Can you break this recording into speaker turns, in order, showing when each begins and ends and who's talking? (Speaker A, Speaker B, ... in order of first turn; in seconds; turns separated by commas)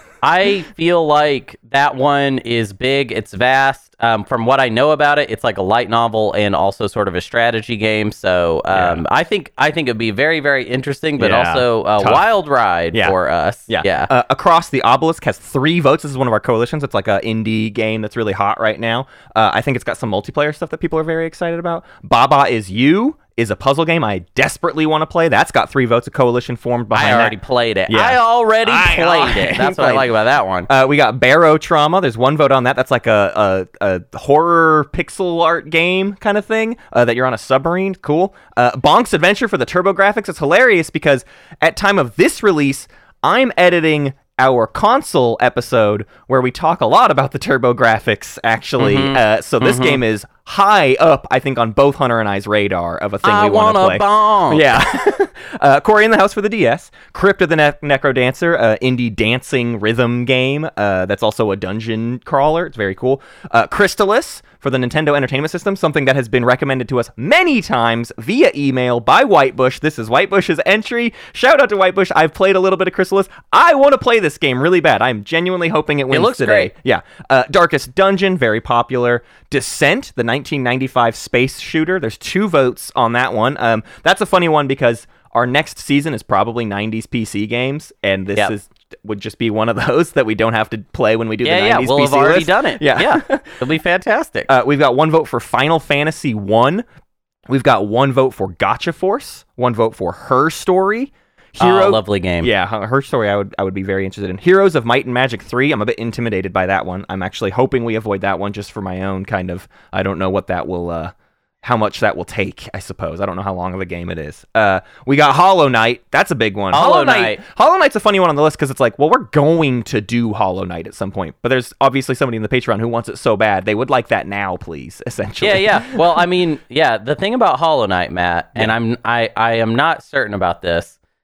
Speaker A: 0.2-14.1, Speaker B: 8.7-9.0, Speaker B: 11.2-12.2, Speaker B: 13.7-27.4, Speaker A: 26.9-30.7, Speaker B: 27.9-30.1, Speaker B: 30.7-93.6, Speaker A: 48.8-50.0, Speaker A: 53.2-54.8, Speaker A: 76.1-76.7, Speaker A: 91.4-94.5, Speaker B: 94.5-96.8, Speaker B: 97.5-126.2, Speaker A: 101.6-102.5, Speaker A: 116.7-117.4, Speaker A: 125.4-131.0